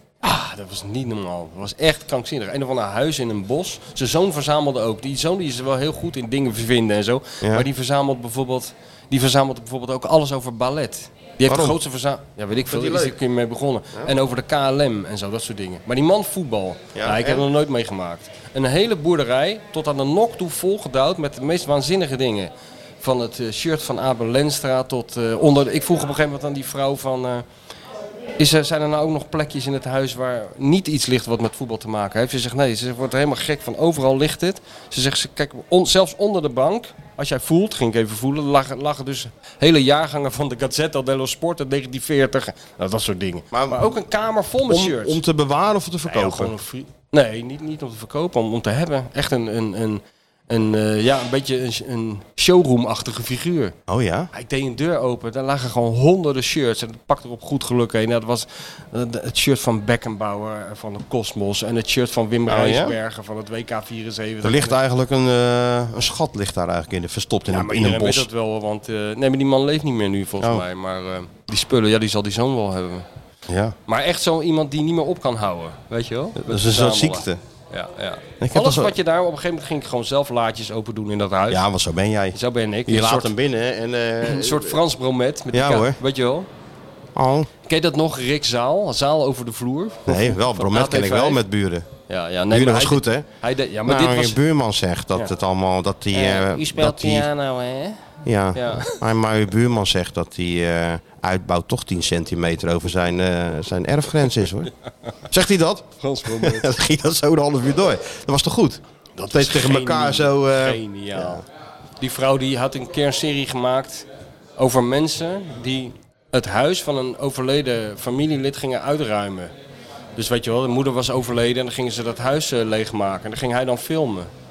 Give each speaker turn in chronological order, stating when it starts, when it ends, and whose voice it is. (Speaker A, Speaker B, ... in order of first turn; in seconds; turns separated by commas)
Speaker A: 0.2-27.4, Speaker B: 7.4-7.7, Speaker B: 11.5-11.8, Speaker B: 12.7-13.2, Speaker B: 16.9-17.5, Speaker A: 28.4-45.2, Speaker B: 43.5-43.9, Speaker B: 44.7-46.5, Speaker A: 46.1-53.8, Speaker B: 53.9-54.3, Speaker A: 54.3-64.8, Speaker B: 62.5-63.0, Speaker B: 64.4-68.3, Speaker A: 67.5-73.1, Speaker B: 73.5-73.8, Speaker A: 73.9-81.6, Speaker B: 76.4-77.4, Speaker B: 78.4-79.0, Speaker B: 81.5-84.8, Speaker A: 82.3-83.3, Speaker A: 84.2-86.5, Speaker B: 85.5-86.0, Speaker B: 87.2-87.5, Speaker A: 87.7-91.4, Speaker B: 90.1-91.9, Speaker A: 92.1-94.4, Speaker B: 92.5-93.3, Speaker B: 93.9-97.3, Speaker A: 96.1-97.9, Speaker B: 98.2-104.7, Speaker A: 98.5-99.0, Speaker B: 105.3-111.4, Speaker A: 106.0-106.7, Speaker A: 109.2-111.4, Speaker A: 112.0-114.1, Speaker A: 114.6-119.5, Speaker A: 120.2-124.3